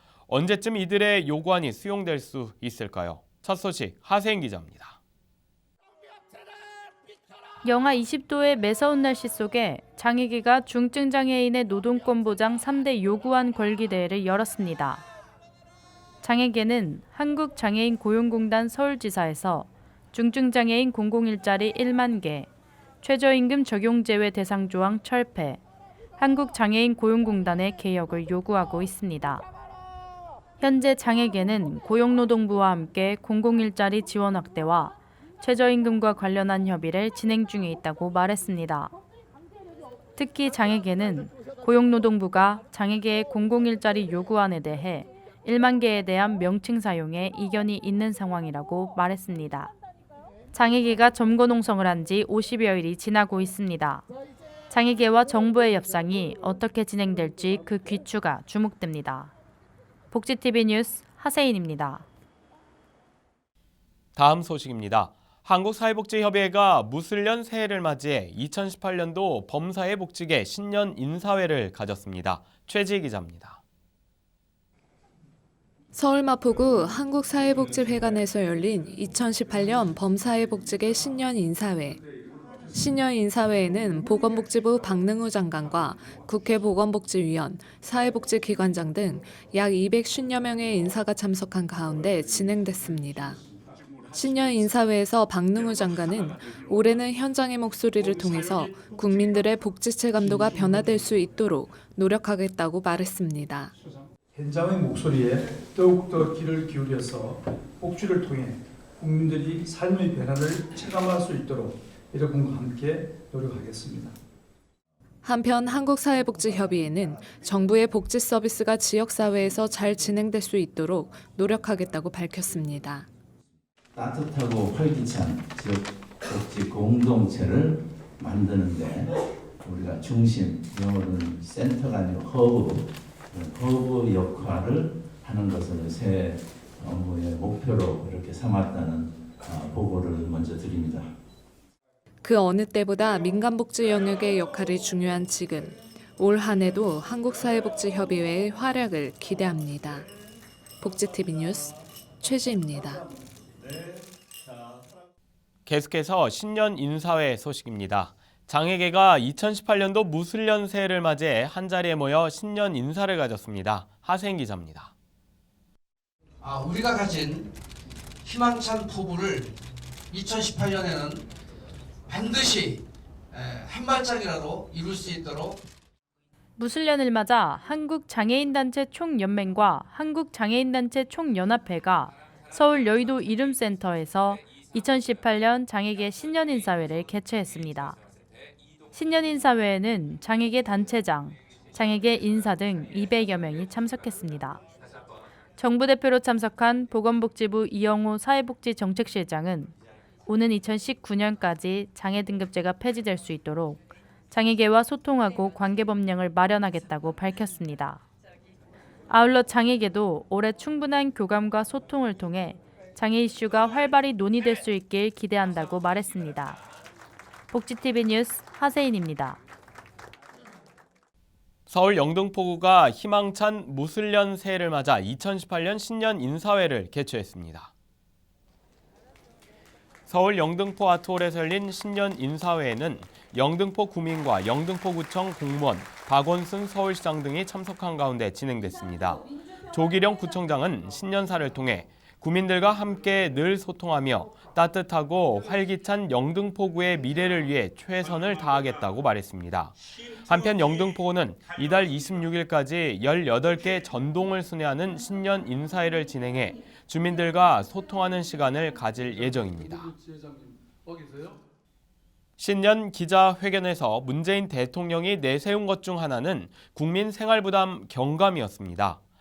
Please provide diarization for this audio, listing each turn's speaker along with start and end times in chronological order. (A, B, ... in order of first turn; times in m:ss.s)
0:00.3-0:05.0 A
0:07.6-0:15.0 B
0:16.2-0:22.5 B
0:23.0-0:25.6 B
0:26.2-0:29.4 B
0:30.6-0:38.9 B
0:40.1-0:49.7 B
0:50.5-0:54.0 B
0:54.7-0:59.3 B
1:00.1-1:02.1 B
1:04.2-1:13.6 A
1:15.9-1:22.0 C
1:22.7-1:33.4 C
1:34.1-1:43.7 C
1:44.3-1:54.1 D
1:55.2-2:03.1 C
2:03.9-2:21.1 E
2:22.2-2:30.1 C
2:30.8-2:33.0 C
2:35.6-2:44.9 A
2:46.4-2:47.5 F
2:48.2-2:49.5 F
2:50.1-2:51.2 F
2:52.1-2:55.6 F
2:56.6-3:08.0 B
3:08.9-3:14.6 B
3:15.6-3:19.7 B
3:20.2-3:28.0 B
3:29.1-3:36.6 B
3:37.5-3:39.4 B
3:41.7-3:47.7 A
3:50.1-4:19.9 A
4:20.9-4:21.3 D
4:22.4-4:29.0 A